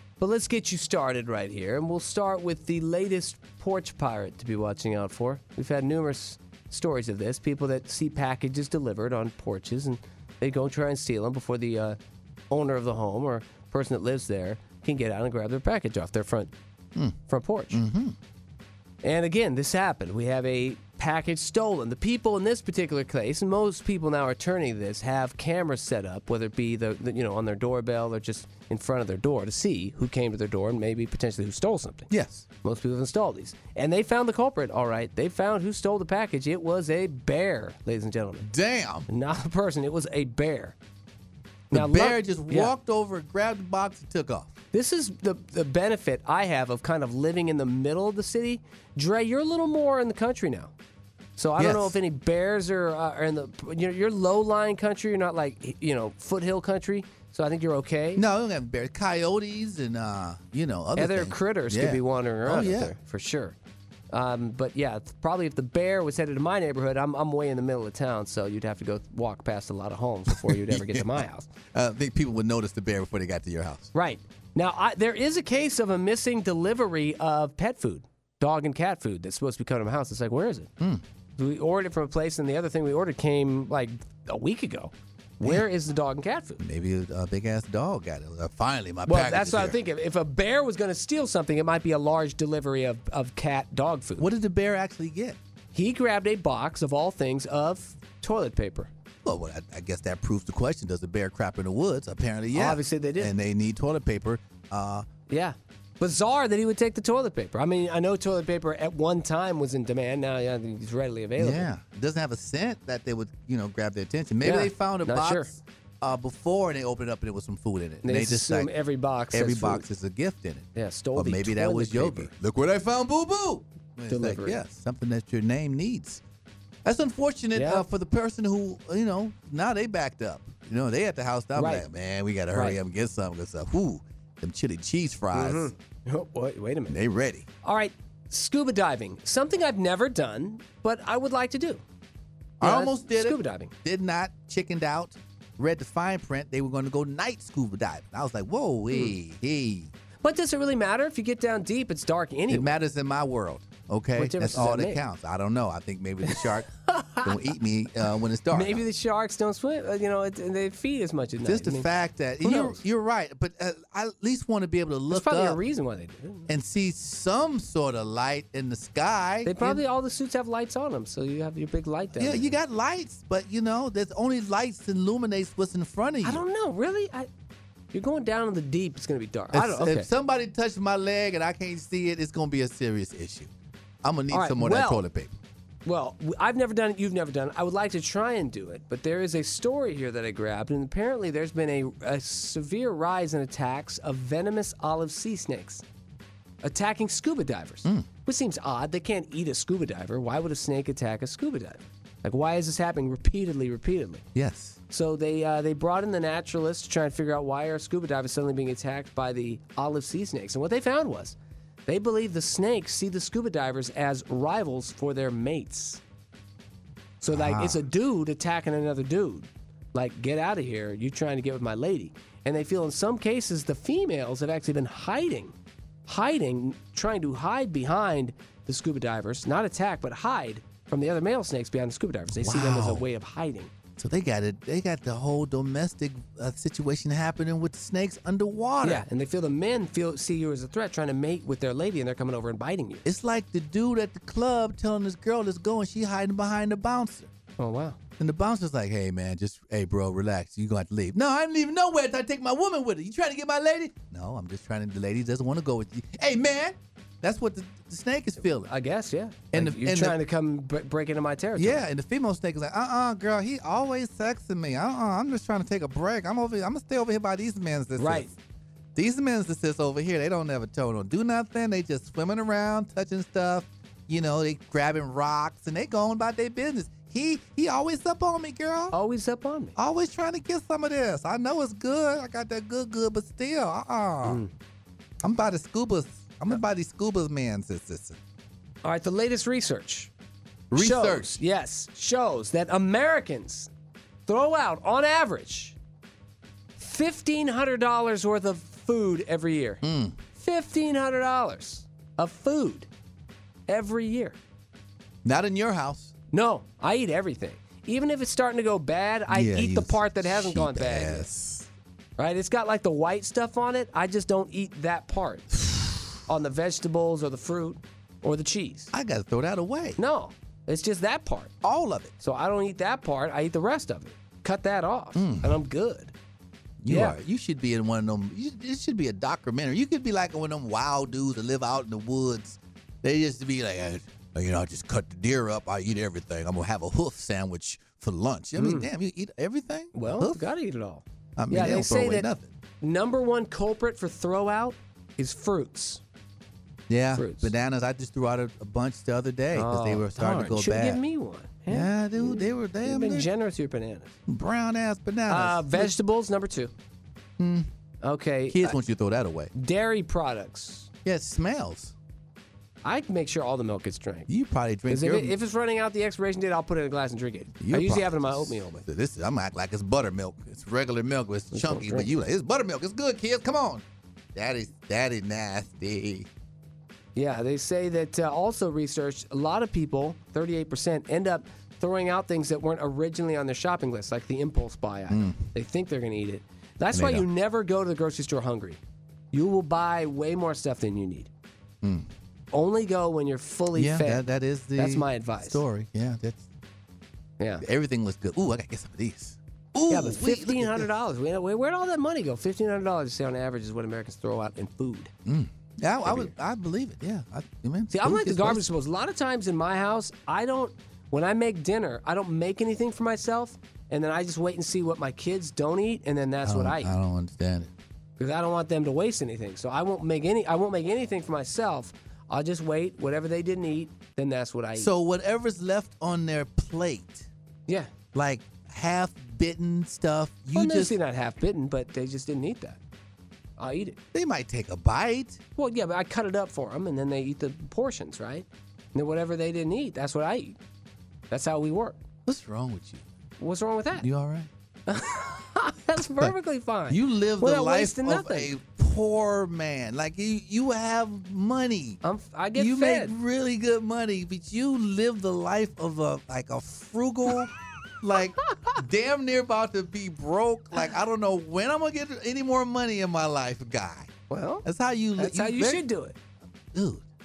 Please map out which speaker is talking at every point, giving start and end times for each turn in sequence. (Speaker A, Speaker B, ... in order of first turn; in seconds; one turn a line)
Speaker A: 0.2-12.0
Speaker A: 12.5-16.5
Speaker A: 17.3-17.8
Speaker B: 17.7-18.2
Speaker A: 19.0-32.1
Speaker B: 32.1-32.5
Speaker A: 32.6-38.5
Speaker B: 38.4-39.1
Speaker A: 39.1-40.8
Speaker A: 41.7-42.7
Speaker B: 41.7-44.5
Speaker A: 44.7-50.7
Speaker A: 51.4-58.2
Speaker B: 51.6-52.0
Speaker B: 58.2-63.0
Speaker A: 61.0-63.6
Speaker A: 64.1-71.5
Speaker B: 70.3-73.9
Speaker A: 73.9-80.7
Speaker A: 81.4-86.6
Speaker B: 86.6-89.8
Speaker A: 89.1-94.3
Speaker B: 94.2-95.4
Speaker A: 95.7-98.9
Speaker B: 99.2-105.1
Speaker A: 102.5-103.3
Speaker A: 105.3-111.7
Speaker B: 111.4-118.7
Speaker A: 114.4-115.5
Speaker A: 118.0-119.9
Speaker B: 119.3-126.2
Speaker A: 120.8-122.3
Speaker A: 124.1-124.6
Speaker B: 126.8-135.7
Speaker A: 127.5-127.9
Speaker A: 131.6-131.9
Speaker A: 132.5-132.8
Speaker A: 135.3-137.0
Speaker B: 136.9-137.5
Speaker A: 137.6-141.8
Speaker B: 142.6-149.9
Speaker A: 142.6-143.7
Speaker A: 150.2-152.7
Speaker B: 152.5-158.8
Speaker A: 154.2-155.0
Speaker A: 156.3-157.5
Speaker A: 158.5-161.9
Speaker B: 161.4-165.6
Speaker A: 162.4-162.8
Speaker A: 165.1-166.5
Speaker B: 166.5-169.8
Speaker A: 169.4-172.6
Speaker B: 172.2-176.4
Speaker A: 176.2-177.3
Speaker A: 177.9-180.1
Speaker B: 179.5-183.5
Speaker B: 184.0-185.3
Speaker A: 184.3-185.1
Speaker A: 185.8-195.8
Speaker A: 196.6-204.3
Speaker B: 204.3-204.8
Speaker A: 204.9-216.0
Speaker B: 217.2-217.8
Speaker A: 217.2-225.6
Speaker A: 226.1-233.7
Speaker B: 232.3-233.1
Speaker B: 234.0-239.1
Speaker A: 238.8-243.1
Speaker B: 243.1-247.3
Speaker A: 247.6-248.0
Speaker B: 248.2-258.7
Speaker A: 258.6-261.9
Speaker B: 259.5-260.2
Speaker B: 261.6-268.4
Speaker A: 268.0-268.3
Speaker B: 269.0-278.9
Speaker A: 278.9-279.8
Speaker B: 279.8-284.4
Speaker A: 284.2-284.5
Speaker B: 285.2-288.2
Speaker A: 288.8-290.1
Speaker B: 290.7-291.4
Speaker A: 290.7-293.7
Speaker A: 294.3-295.8
Speaker A: 296.8-299.8
Speaker B: 299.8-300.2
Speaker A: 300.3-302.9
Speaker A: 303.7-304.4
Speaker B: 305.2-306.1
Speaker A: 306.3-311.3
Speaker B: 309.3-311.7
Speaker A: 312.2-318.9
Speaker B: 318.9-320.0
Speaker A: 320.0-321.5
Speaker B: 321.6-322.1
Speaker A: 322.2-326.1
Speaker B: 325.1-325.6
Speaker B: 326.8-340.5
Speaker A: 326.9-327.2
Speaker A: 338.6-338.9
Speaker A: 339.9-342.3
Speaker B: 341.4-342.5
Speaker A: 342.8-346.0
Speaker B: 346.9-351.0
Speaker A: 347.2-347.5
Speaker A: 349.5-354.1
Speaker B: 351.7-353.3
Speaker B: 354.3-355.9
Speaker A: 355.3-356.7
Speaker B: 357.4-357.7
Speaker A: 358.0-358.8
Speaker B: 358.5-359.5
Speaker A: 359.5-360.9
Speaker B: 361.1-361.9
Speaker A: 362.8-364.3
Speaker B: 364.3-365.4
Speaker A: 364.9-368.9
Speaker B: 367.6-373.8
Speaker A: 371.5-372.1
Speaker B: 374.4-376.3
Speaker A: 377.1-388.8
Speaker B: 385.1-385.4
Speaker B: 386.9-387.3
Speaker A: 389.3-391.3
Speaker B: 391.8-392.1
Speaker A: 392.5-394.2
Speaker B: 393.7-396.5
Speaker A: 394.8-395.6
Speaker A: 397.4-397.6
Speaker B: 397.6-400.9
Speaker A: 399.9-405.1
Speaker B: 405.3-408.6
Speaker A: 406.1-406.3
Speaker A: 407.9-416.9
Speaker B: 416.4-417.7
Speaker A: 418.2-424.9
Speaker B: 424.8-427.3
Speaker B: 428.1-430.9
Speaker A: 430.5-432.8
Speaker A: 433.6-434.0
Speaker B: 434.1-435.4
Speaker A: 435.6-440.6
Speaker A: 441.3-442.0
Speaker B: 442.3-443.0
Speaker A: 443.4-444.1
Speaker B: 444.0-444.5
Speaker A: 444.9-448.5
Speaker B: 446.9-452.0
Speaker A: 452.0-453.2
Speaker B: 452.6-464.1
Speaker A: 464.3-464.6
Speaker B: 464.6-465.8
Speaker A: 465.2-466.2
Speaker B: 466.7-467.1